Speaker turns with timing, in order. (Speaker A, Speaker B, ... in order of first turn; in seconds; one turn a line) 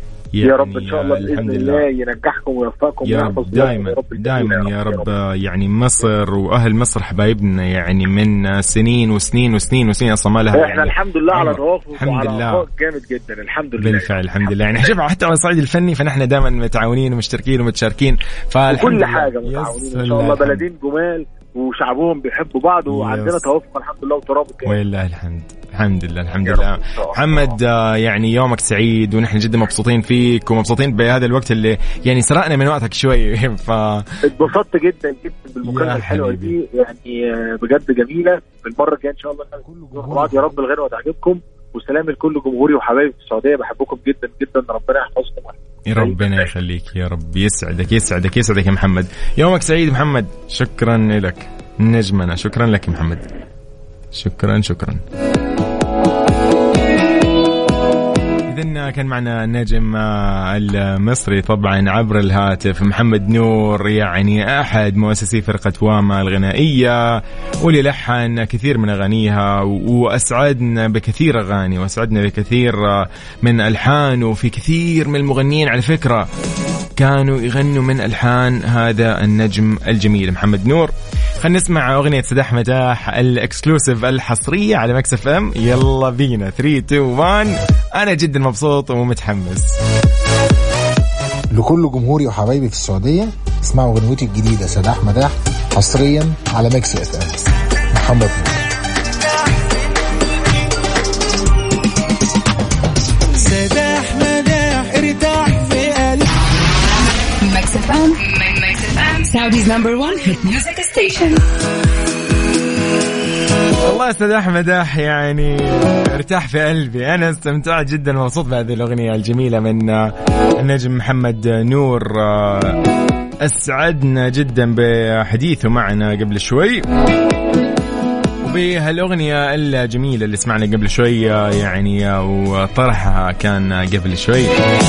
Speaker A: 0.4-1.9
Speaker B: 0.4-5.1
Speaker A: 3.0-12.7
Speaker B: 10.5-14.9
Speaker A: 13.8-20.6
Speaker B: 18.7-24.8
Speaker A: 22.9-23.5
Speaker A: 24.7-34.4
Speaker B: 26.4-27.4
Speaker B: 34.2-46.5
Speaker A: 35.6-36.6
Speaker C: 39.6-40.6
Speaker A: 45.9-53.3
Speaker A: 54.1-55.0
Speaker A: 58.5-76.3
Speaker A: 77.0-89.8
Speaker C: 91.5-98.6
Speaker D: 103.3-106.3
Speaker E: 107.4-111.4
Speaker A: 113.8-122.8
Speaker A: 123.4-126.9
Speaker A: 128.4-134.6